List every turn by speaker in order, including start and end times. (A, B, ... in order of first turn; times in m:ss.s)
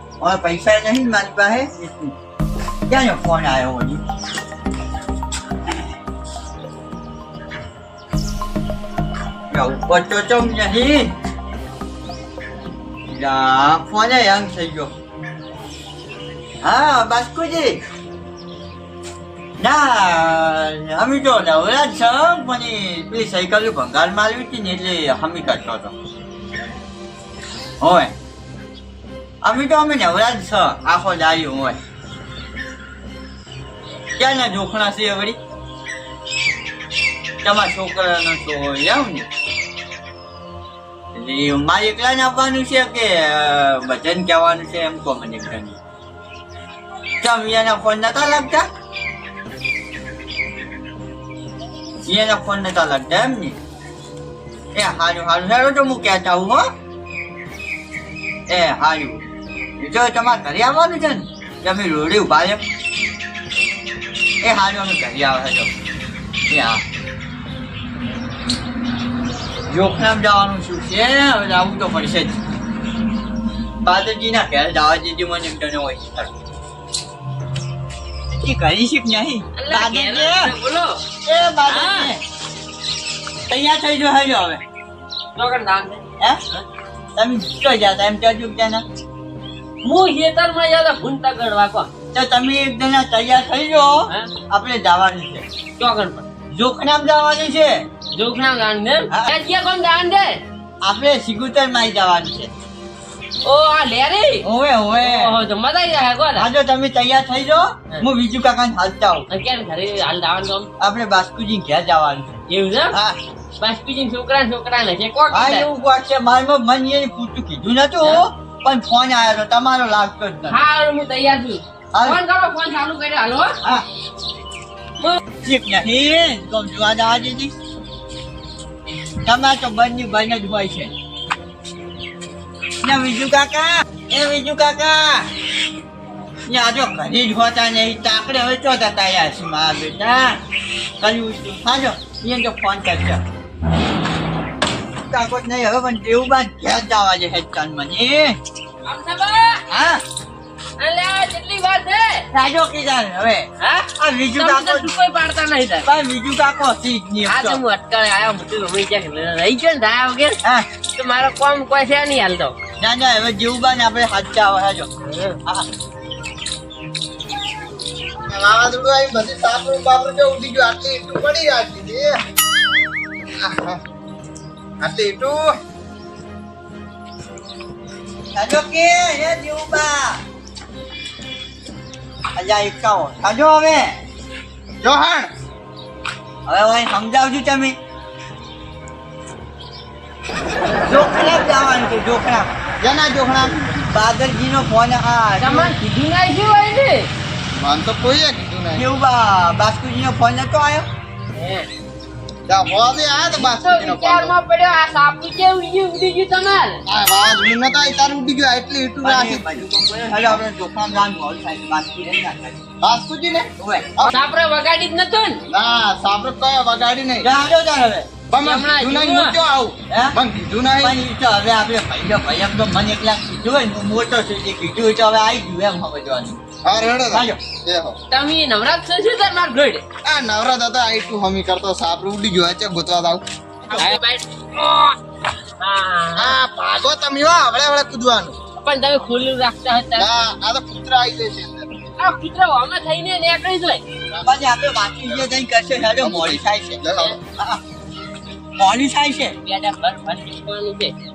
0:00.2-0:02.1 A
0:02.9-0:04.0 A
0:09.5-0:11.1 A
0:13.1-0:14.9 A
0:16.6-0:17.8 A
0:19.6-0:25.9 A
0:27.8-0:28.1 A
0:29.4-0:31.8 A
0:34.2-0:35.4 A
0:37.4-0:39.3 A
0:41.1-0:45.8 A
0:47.2-0:48.7 A
0:52.1-0:53.6 A
0:54.7-0:56.7 A
0:58.5-0:59.2 A
0:59.8-1:02.6 A
1:04.4-1:05.7 A
1:06.5-1:06.8 A
1:09.7-1:12.4 A
1:13.8-1:16.3 A
1:18.3-1:20.5 A
1:19.6-1:21.0 B
1:21.2-1:22.2 A
1:21.7-1:22.1 B
1:23.5-1:24.6 A
1:25.4-1:26.6 B
1:27.2-1:28.8 A
1:29.8-1:31.9 B
1:32.1-1:35.4 A
1:35.8-1:36.3 B
1:36.5-1:37.8 A
1:38.1-1:40.4 B
1:39.1-1:39.3 A
1:40.8-1:42.5 A
1:43.4-1:44.4 B
1:44.4-1:45.3 A
1:45.0-1:46.5 B
1:46.4-1:49.3 A
1:49.3-1:50.7 B
1:50.8-1:53.2 A
1:52.5-1:53.0 B
1:53.6-1:55.7 B
1:55.3-2:00.6 A
2:00.5-2:03.6 B
2:01.9-2:02.2 A
2:05.4-2:07.5 A
2:09.2-2:10.9 A
2:12.8-2:15.3 A
2:16.5-2:20.4 A
2:21.0-2:23.2 A
2:25.1-2:28.4 A
2:28.8-2:29.6 B
2:29.7-2:30.0 A
2:30.8-2:32.3 B
2:32.3-2:34.9 A
2:33.6-2:35.9 B
2:35.8-2:37.6 A
2:37.3-2:40.4 B
2:40.4-2:40.7 A
2:40.9-2:42.6 B
2:42.8-2:44.9 A
2:45.0-2:45.4 B
2:48.3-2:52.2 C
2:53.4-2:53.8 C
2:54.8-2:55.5 C
2:58.3-3:00.2 A
3:02.3-3:04.0 A
3:04.8-3:05.3 C
3:06.4-3:07.8 A
3:10.8-3:12.6 A
3:12.8-3:13.8 C
3:13.9-3:15.7 A
3:15.4-3:17.1 B
3:17.5-3:18.8 C
3:18.7-3:20.9 A
3:21.3-3:21.7 B
3:22.5-3:24.3 C
3:23.4-3:26.8 B
3:26.9-3:29.6 C
3:29.0-3:32.6 A
3:32.8-3:34.1 C
3:33.6-3:33.9 A
3:34.1-3:35.4 B
3:35.5-3:37.3 C
3:37.2-3:38.1 A
3:38.3-3:41.0 C
3:38.4-3:39.4 B
3:39.9-3:40.2 A
3:40.8-3:46.4 A
3:46.6-3:48.0 C
3:47.1-3:47.4 A
3:48.1-3:49.8 B
3:50.0-3:54.0 C
3:53.7-3:55.0 B
3:55.6-3:56.4 B
3:56.2-3:58.4 C
3:58.6-4:00.1 B
4:00.0-4:01.7 C
4:02.0-4:03.8 B
4:04.2-4:06.8 A
4:06.0-4:07.2 C
4:07.4-4:07.6 A
4:08.6-4:09.3 A
4:09.4-4:10.9 B